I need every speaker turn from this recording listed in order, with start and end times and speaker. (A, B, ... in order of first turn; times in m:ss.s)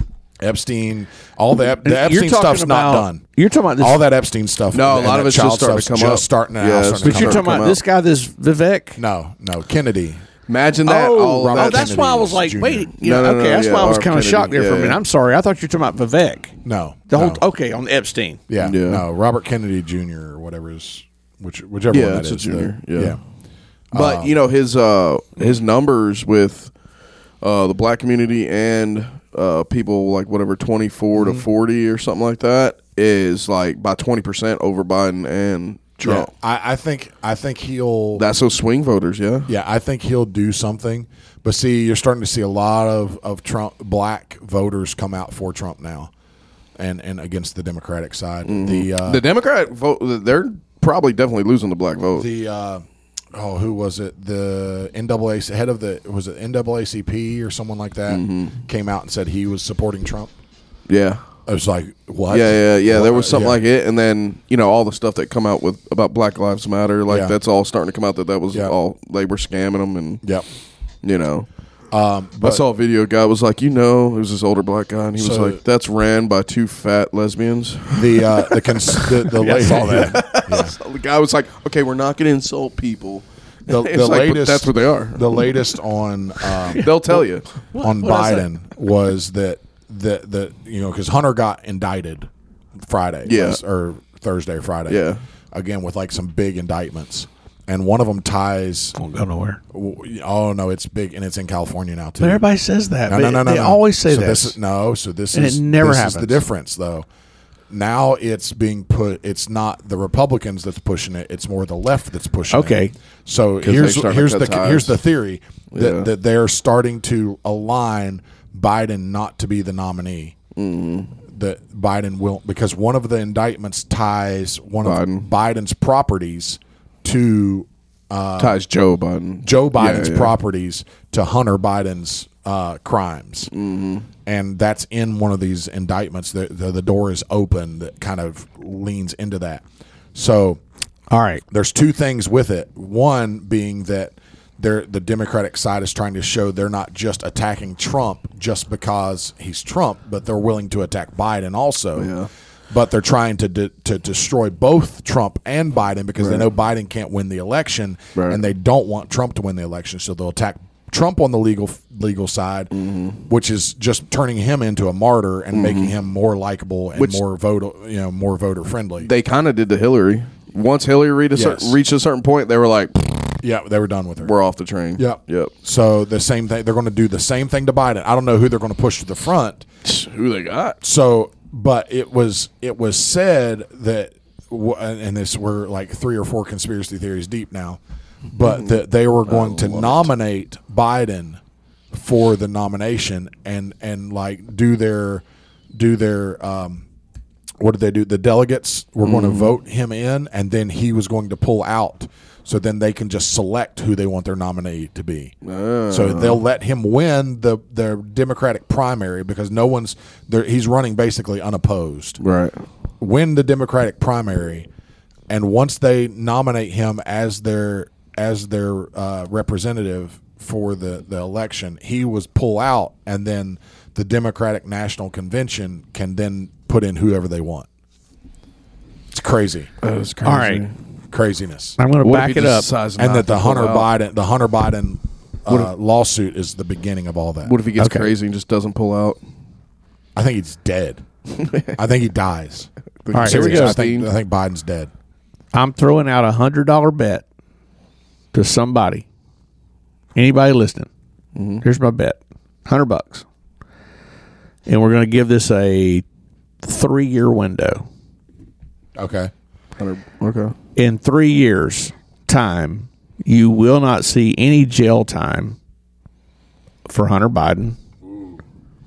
0:00.4-0:03.2 A
0:01.8-0:04.0 B
0:03.8-0:07.6 A
0:04.7-0:07.8 C
0:07.0-0:09.0 B
0:09.0-0:10.2 A
0:10.5-0:11.9 C
0:10.8-0:16.5 B
0:11.1-0:12.9 A
0:13.0-0:15.0 C
0:16.6-0:17.4 A
0:17.1-0:18.4 B
0:18.5-0:23.2 A
0:18.6-0:19.0 C
0:21.9-0:23.2 C
0:23.9-0:24.3 A
0:23.9-0:26.7 C
0:27.4-0:36.3 C
0:31.2-0:31.4 A
0:36.0-0:38.2 A
0:38.2-0:39.5 C
0:39.5-0:46.1 A
0:46.8-0:49.2 A
0:48.4-0:52.3 C
0:52.2-1:00.3 A
0:58.1-0:58.6 C
1:00.9-1:01.2 C
1:01.5-1:03.6 A
1:02.3-1:10.2 C
1:07.1-1:07.3 A
1:11.0-1:11.5 C
1:11.9-1:12.6 A
1:12.4-1:25.7 C
1:15.2-1:15.6 A
1:17.9-1:20.7 A
1:19.3-1:20.2 B
1:23.7-1:27.2 A
1:26.5-1:27.4 C
1:26.7-1:27.2 B
1:27.7-1:28.5 B
1:27.8-1:32.3 A
1:32.8-1:35.0 A
1:33.2-1:33.6 C
1:34.9-1:35.2 C
1:35.5-1:39.0 A
1:39.0-1:39.6 B
1:39.7-1:42.4 A
1:42.2-1:44.6 B
1:43.1-1:47.0 A
1:45.3-1:46.4 B
1:47.7-2:00.4 A
1:52.5-1:52.9 B
1:53.6-1:54.9 C
1:55.7-1:56.1 C
2:00.5-2:01.1 C
2:01.3-2:08.6 A
2:04.8-2:05.3 C
2:08.4-2:10.3 C
2:09.4-2:13.5 A
2:13.5-2:14.0 C
2:14.2-2:20.6 A
2:21.1-2:21.4 B
2:21.5-2:32.1 A
2:32.0-2:32.3 C
2:32.7-2:42.7 A
2:38.1-2:38.4 C
2:42.7-2:43.2 C
2:43.3-2:49.1 A
2:45.5-2:45.9 C
2:47.0-2:47.2 C
2:49.0-2:53.4 C
2:51.3-2:51.8 A
2:53.4-2:54.3 A
2:54.2-2:55.5 C
2:55.0-2:59.6 A
2:59.8-3:00.8 C
3:00.8-3:11.4 A
3:08.4-3:10.1 C
3:11.9-3:16.8 A
3:17.6-3:25.3 A
3:19.0-3:19.5 C
3:25.4-3:26.4 C
3:25.9-3:32.2 A
3:32.2-3:32.6 C
3:33.0-3:34.7 A
3:35.3-3:47.7 A
3:49.1-3:49.7 A
3:49.8-3:50.7 C
3:50.2-3:50.6 B
3:51.1-3:51.8 A
3:51.8-3:52.7 B
3:52.0-3:53.9 C
3:53.0-3:57.5 A
3:57.4-3:59.2 C
3:57.8-3:58.1 B
4:00.2-4:01.0 A
4:01.3-4:01.8 C
4:01.8-4:04.9 A
4:03.0-4:04.1 C
4:03.1-4:03.8 B
4:05.5-4:07.2 B
4:08.3-4:09.0 B
4:10.1-4:10.9 B
4:11.4-4:11.6 C
4:11.6-4:13.2 B
4:14.6-4:16.0 B
4:16.6-4:17.8 B
4:19.0-4:19.3 A
4:19.8-4:20.5 C
4:20.8-4:25.6 B
4:26.8-4:27.8 B